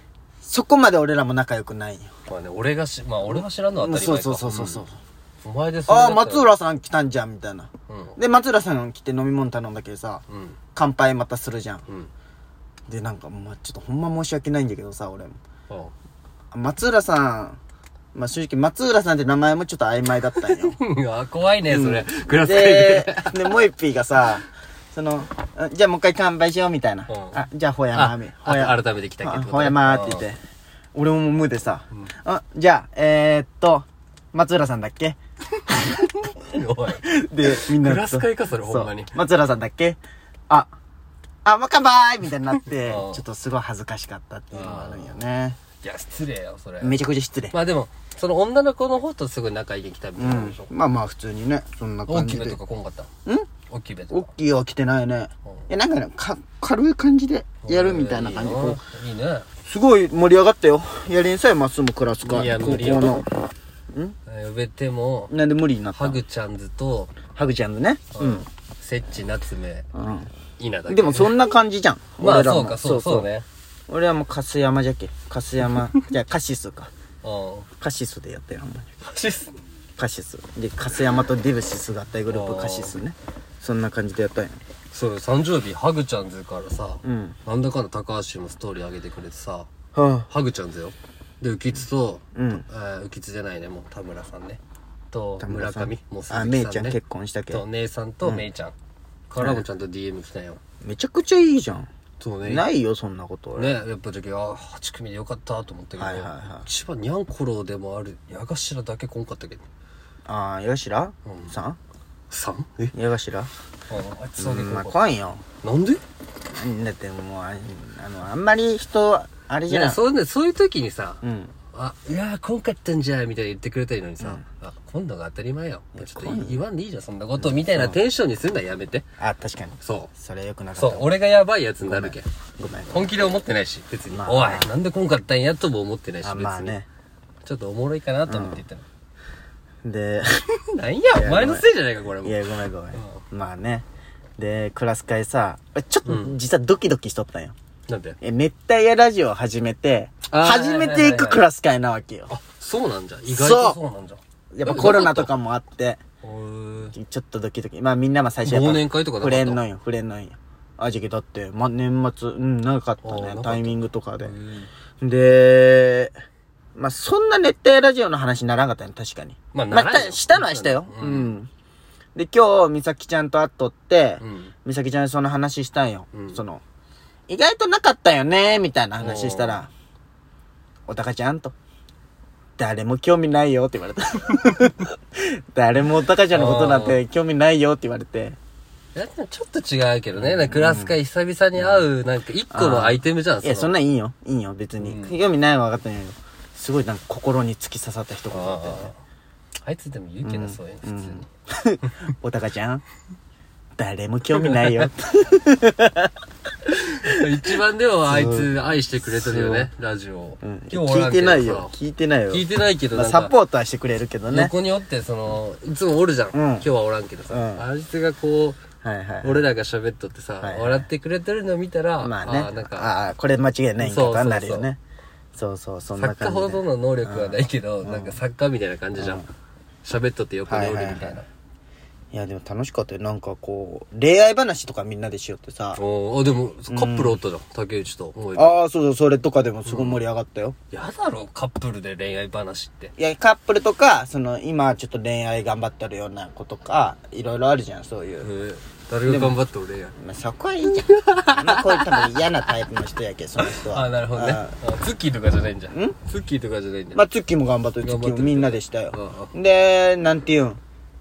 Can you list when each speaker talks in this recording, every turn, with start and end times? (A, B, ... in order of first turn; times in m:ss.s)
0:00.4-0:02.1 A
0:02.3-0:04.8 B
0:03.3-0:05.0 A
0:05.4-0:06.5 B
0:05.9-0:10.2 A
0:07.9-0:08.2 B
0:10.3-0:10.6 B
0:10.7-0:11.8 A
0:12.9-0:15.4 A
0:16.5-0:17.6 A
0:18.1-0:20.8 A
0:20.5-0:23.5 B
0:21.7-0:30.4 A
0:27.1-0:27.4 B
0:27.9-0:30.2 B
0:30.9-0:35.2 A
0:36.0-0:39.2 B
0:36.9-0:40.7 A
0:41.4-0:45.6 A
0:42.6-0:43.2 B
0:44.5-0:45.2 B
0:45.8-0:47.0 B
0:46.8-0:47.6 A
0:47.5-0:50.7 B
0:50.2-0:52.6 A
0:52.1-0:53.1 B
0:53.7-0:54.3 B
0:54.1-0:58.8 A
0:57.6-0:59.5 B
0:59.6-1:03.3 A
1:02.2-1:03.2 B
1:04.2-1:05.3 B
1:05.3-1:06.2 A
1:05.9-1:07.2 B
1:07.3-1:08.4 A
1:08.1-1:09.8 B
1:09.9-1:10.3 A
1:10.6-1:11.4 B
1:10.9-1:13.3 A
1:12.2-1:13.4 B
1:13.9-1:16.9 A
1:17.2-1:17.7 B
1:17.8-1:18.9 A
1:19.0-1:19.6 B
1:20.0-1:24.6 A
1:22.3-1:22.9 B
1:24.9-1:29.7 B
1:27.0-1:27.4 A
1:29.9-1:30.3 A
1:30.3-1:34.6 B
1:32.3-1:32.6 A
1:35.1-1:37.0 B
1:35.4-1:37.6 A
1:37.5-1:38.7 B
1:39.3-1:40.6 B
1:39.4-1:39.6 A
1:40.8-1:41.9 A
1:42.2-1:42.7 B
1:42.4-1:43.8 A
1:43.6-1:49.6 B
1:46.0-1:46.6 A
1:50.2-1:51.8 A
1:51.2-1:51.5 B
1:52.3-1:52.9 B
1:52.9-1:53.5 A
1:53.9-1:55.0 B
1:54.4-1:55.4 A
1:55.6-1:56.0 B
1:56.5-2:00.0 A
1:59.7-2:01.2 B
2:01.2-2:01.5 A
2:01.7-2:09.0 B
2:06.0-2:06.6 A
2:07.4-2:08.0 A
2:09.2-2:11.2 A
2:09.8-2:10.1 B
2:10.8-2:12.3 B
2:11.8-2:13.1 A
2:12.9-2:16.8 B
2:14.1-2:14.7 A
2:16.2-2:16.9 A
2:17.4-2:18.8 B
2:18.3-2:18.6 A
2:19.8-2:20.3 A
2:20.7-2:23.2 B
2:21.1-2:21.7 A
2:22.2-2:23.8 A
2:24.4-2:27.5 A
2:26.0-2:26.4 B
2:27.9-2:28.2 B
2:28.2-2:32.3 A
2:30.3-2:31.4 B
2:32.3-2:35.3 B
2:33.3-2:33.8 A
2:34.5-2:36.0 A
2:36.2-2:36.9 B
2:36.9-2:44.3 A
2:38.4-2:39.6 B
2:43.0-2:44.7 B
2:45.0-2:46.1 A
2:46.8-2:51.5 A
2:49.5-2:51.3 B
2:52.1-2:56.6 A
2:54.2-2:54.5 B
2:56.1-2:56.4 B
2:57.3-2:59.7 A
2:59.0-2:59.6 B
3:00.9-3:01.5 A
3:02.6-3:08.4 A
3:06.3-3:07.0 B
3:08.9-3:13.7 B
3:10.2-3:11.0 A
3:11.6-3:11.8 A
3:12.5-3:18.9 A
3:14.8-3:15.1 B
3:18.3-3:19.0 B
3:19.6-3:21.2 B
3:20.2-3:22.8 A
3:23.8-3:26.1 A
3:24.4-3:24.9 B
3:26.7-3:31.7 B
3:28.1-3:29.7 A
3:30.4-3:34.5 A
3:32.3-3:33.3 B
3:34.3-3:38.6 B
3:36.3-3:36.7 A
3:37.3-3:37.6 A
3:38.8-3:39.5 A
3:39.2-3:42.9 B
3:40.4-3:40.9 A
3:42.0-3:44.8 A
3:43.8-3:44.7 B
3:45.3-3:48.2 A
3:46.0-3:49.3 B
3:49.0-3:49.3 A
3:49.8-3:51.2 B
3:50.5-3:51.2 A
3:52.1-3:55.8 A
3:55.8-3:58.6 B
3:56.7-3:57.2 A
3:58.3-4:00.6 A
3:59.6-4:00.0 B
4:00.7-4:02.9 B
4:03.0-4:08.3 A
4:08.2-4:09.9 B
4:09.0-4:09.4 A
4:10.0-4:14.5 A
4:10.6-4:12.2 B
4:13.4-4:17.0 B
4:16.9-4:20.6 A
4:17.8-4:19.3 B